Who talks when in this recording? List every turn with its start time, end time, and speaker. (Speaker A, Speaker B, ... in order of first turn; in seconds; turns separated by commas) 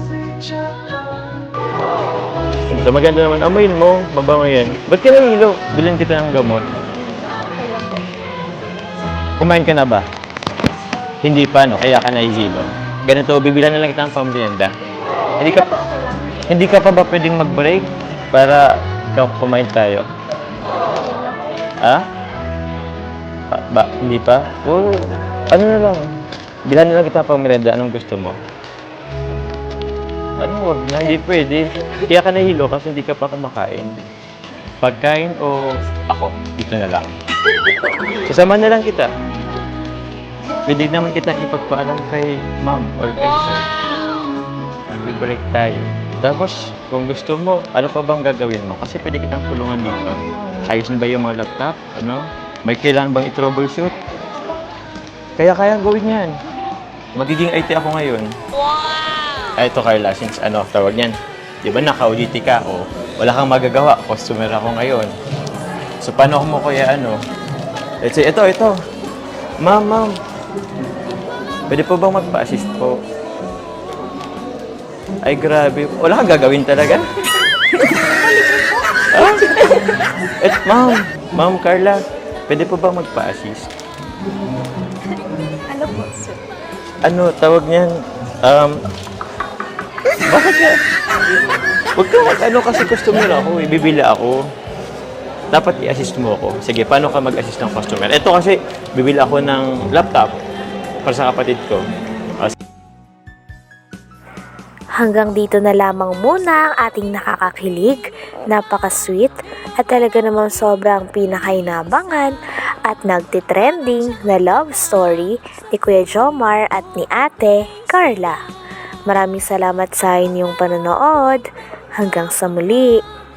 Speaker A: 2.7-6.7, Speaker B: 7.5-8.0, Speaker A: 9.4-10.1, Speaker A: 11.2-14.7, Speaker A: 15.4-15.7, Speaker B: 15.5-15.9, Speaker A: 16.5-20.1, Speaker B: 21.0-21.5, Speaker A: 23.5-26.1, Speaker A: 26.7-28.4, Speaker A: 30.4-34.0, Speaker A: 34.8-37.1, Speaker A: 38.3-39.1, Speaker A: 40.7-43.7, Speaker A: 44.9-54.0, Speaker A: 55.4-56.4, Speaker A: 57.1-58.3, Speaker A: 59.6-65.1, Speaker A: 66.0-67.2, Speaker A: 68.0-68.8, Speaker A: 69.6-70.1, Speaker A: 71.7-73.0, Speaker A: 75.2-77.0, Speaker B: 77.9-79.8, Speaker A: 79.1-79.8, Speaker A: 80.4-83.7, Speaker B: 85.7-86.4, Speaker A: 87.0-88.8, Speaker A: 90.3-90.8, Speaker A: 92.0-94.4, Speaker A: 95.5-100.4, Speaker A: 101.0-101.8, Speaker C: 105.0-112.3, Speaker C: 112.9-118.4, Speaker C: 119.1-121.4, Speaker C: 122.0-122.9